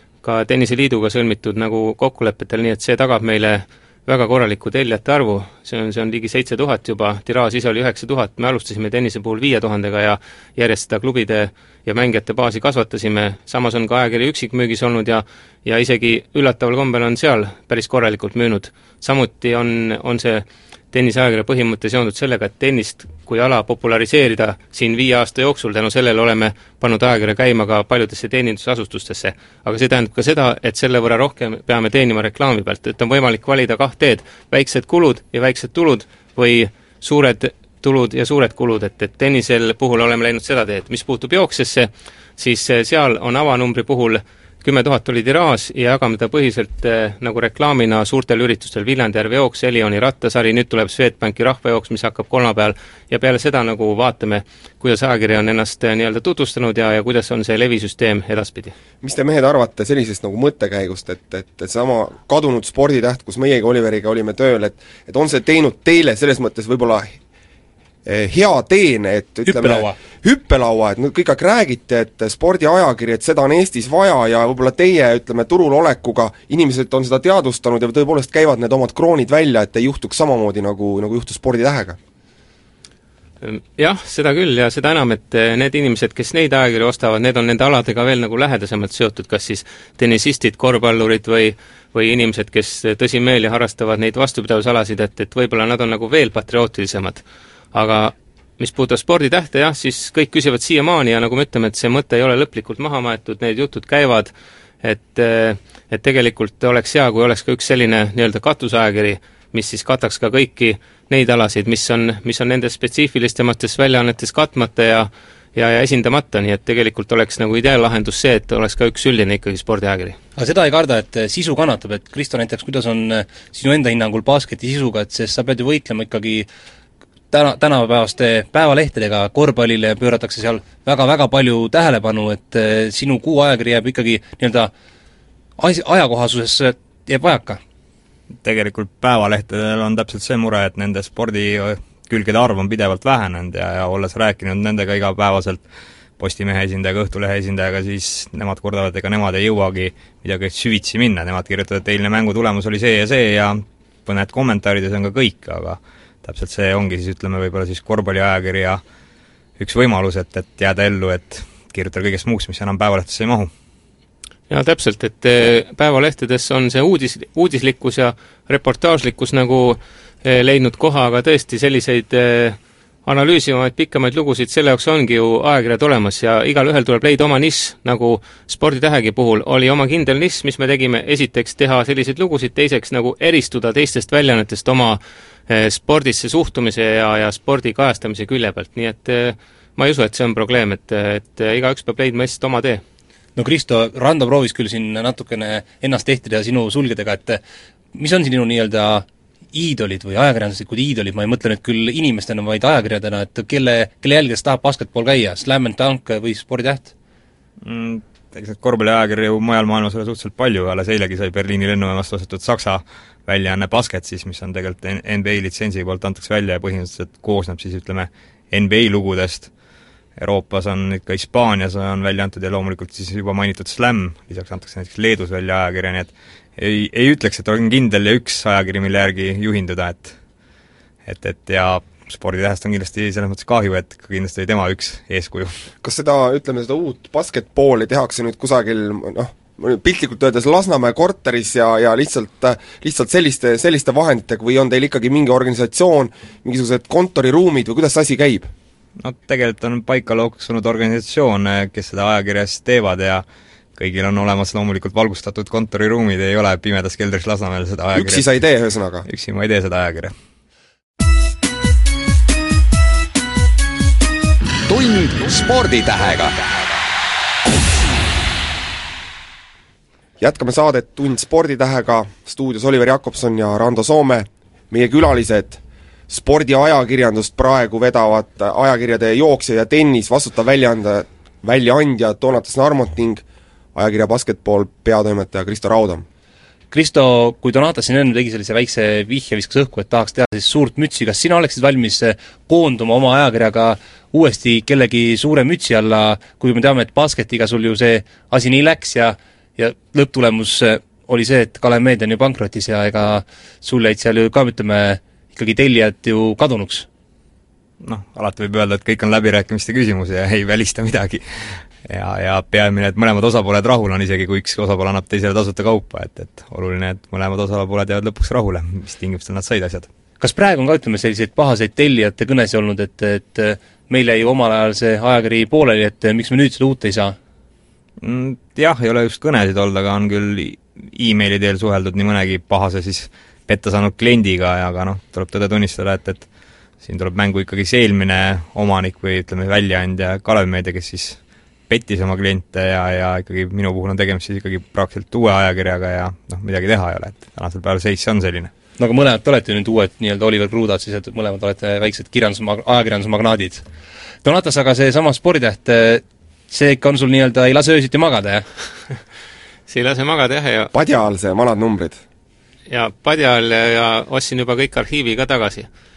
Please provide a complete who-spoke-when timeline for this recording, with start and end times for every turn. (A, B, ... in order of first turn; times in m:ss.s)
0:00.2-0:58.7 A
0:59.0-1:07.2 B
1:08.0-1:22.0 B
1:09.4-1:10.0 C
1:23.4-1:37.2 A
1:37.7-1:44.3 A
1:44.8-2:00.2 A
2:00.4-2:06.5 C
2:07.3-2:14.7 C
2:15.6-2:17.6 C
2:18.4-2:25.6 D
2:26.2-2:38.8 D
2:39.6-2:43.5 D
2:44.5-3:12.8 A
3:13.4-3:17.4 C
3:17.9-3:26.9 C
3:27.6-3:39.5 D
3:40.2-3:50.1 D
3:51.0-3:55.6 D
3:55.8-4:08.5 B
4:09.0-4:13.2 D
4:13.8-4:18.2 D
4:17.9-4:19.0 B
4:19.0-4:20.1 D
4:24.7-4:26.8 E
4:30.2-4:43.2 B
4:43.7-4:46.0 B
4:46.7-5:06.9 C
5:07.8-5:19.9 D
5:20.2-5:27.2 C
5:28.0-5:36.3 D
5:36.8-5:41.2 D
5:41.7-5:48.5 D
5:48.8-5:53.6 C
5:54.2-5:58.4 C
5:59.7-6:00.7 A
6:00.7-6:02.0 B
6:02.7-6:05.7 A